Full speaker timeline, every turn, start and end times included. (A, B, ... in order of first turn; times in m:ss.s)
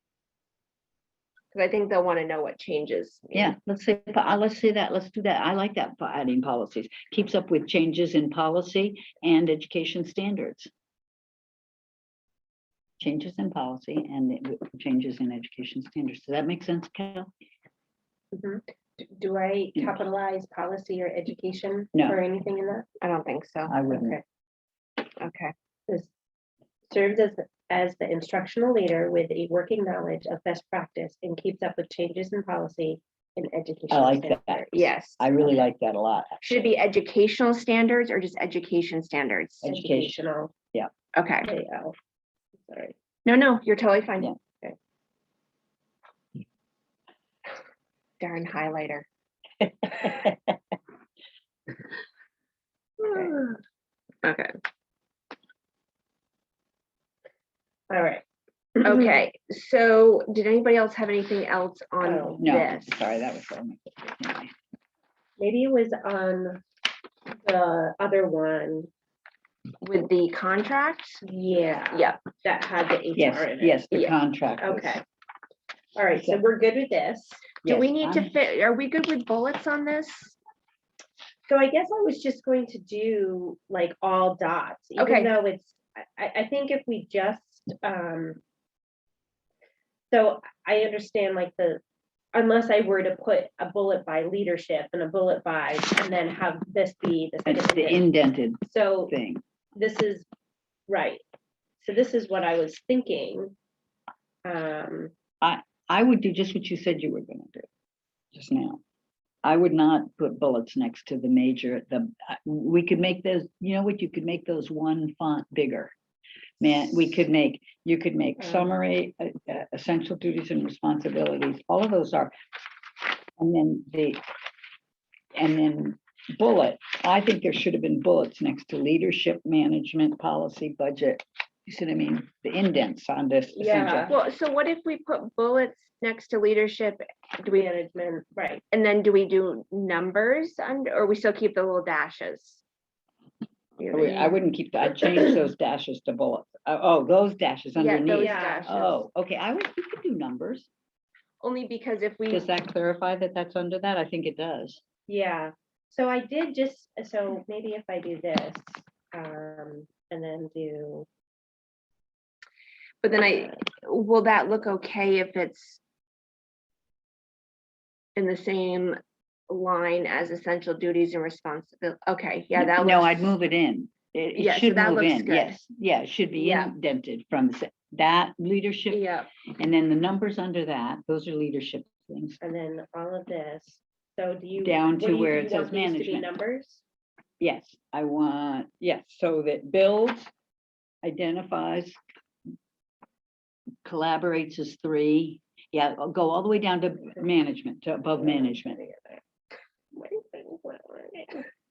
0:01.5-0:03.5 A
0:03.3-0:10.7 B
0:13.0-0:17.3 B
0:18.3-0:22.9 C
0:21.9-0:22.2 B
0:23.0-0:24.0 A
0:23.7-0:24.2 B
0:23.9-0:24.2 C
0:25.2-0:25.5 A
0:26.9-0:34.9 C
0:33.9-0:34.7 B
0:34.7-0:35.4 A
0:35.2-0:36.8 B
0:36.4-0:39.6 A
0:39.6-0:40.2 B
0:39.6-0:40.5 C
0:41.1-0:41.5 A
0:41.4-0:41.9 C
0:42.6-0:42.9 C
0:43.2-0:44.3 A
0:48.2-0:49.1 A
0:49.6-0:50.5 B
0:53.0-0:53.6 A
0:54.2-0:54.6 A
0:57.9-0:58.2 C
0:58.8-0:59.1 C
0:58.8-1:02.9 A
1:02.0-1:02.4 C
1:02.4-1:04.5 B
1:05.4-1:06.6 C
1:07.3-1:08.9 C
1:09.8-1:11.2 A
1:11.2-1:13.9 C
1:11.9-1:12.2 A
1:13.2-1:15.0 B
1:14.6-1:15.0 C
1:15.9-1:17.5 C
1:16.1-1:16.4 B
1:17.6-1:18.3 B
1:17.6-1:20.3 A
1:21.5-1:28.4 C
1:25.0-1:25.3 A
1:30.1-1:31.8 C
1:32.3-1:38.0 C
1:37.4-1:39.4 B
1:38.6-1:39.1 C
1:39.7-1:40.2 C
1:40.9-1:41.2 C
1:41.8-1:43.5 C
1:44.4-1:45.1 C
1:45.4-1:47.7 B
1:48.3-1:48.8 B
1:49.4-1:55.9 B
1:56.6-2:02.3 B
1:58.4-1:58.7 C
2:03.4-2:04.2 B
2:05.3-2:14.1 B
2:13.5-2:14.2 C
2:14.1-2:17.7 A
2:17.5-2:18.6 C
2:18.7-2:22.6 A
2:23.8-2:24.4 A
2:23.9-2:30.7 B
2:27.7-2:29.0 A
2:28.1-2:28.7 C
2:31.4-2:32.4 A
2:32.3-2:34.8 B
2:35.1-2:41.1 C
2:43.0-2:45.8 A
2:48.2-2:49.0 A
2:49.5-2:53.3 A
2:52.6-2:59.0 B
2:54.4-2:55.6 A
2:56.3-2:56.7 A
2:58.9-2:59.3 A
2:59.6-3:02.4 B
3:02.4-3:06.8 C
3:04.6-3:06.3 B
3:07.4-3:10.3 B
3:11.0-3:12.0 B
3:13.8-3:18.8 B
3:18.1-3:19.2 C
3:19.9-3:21.5 C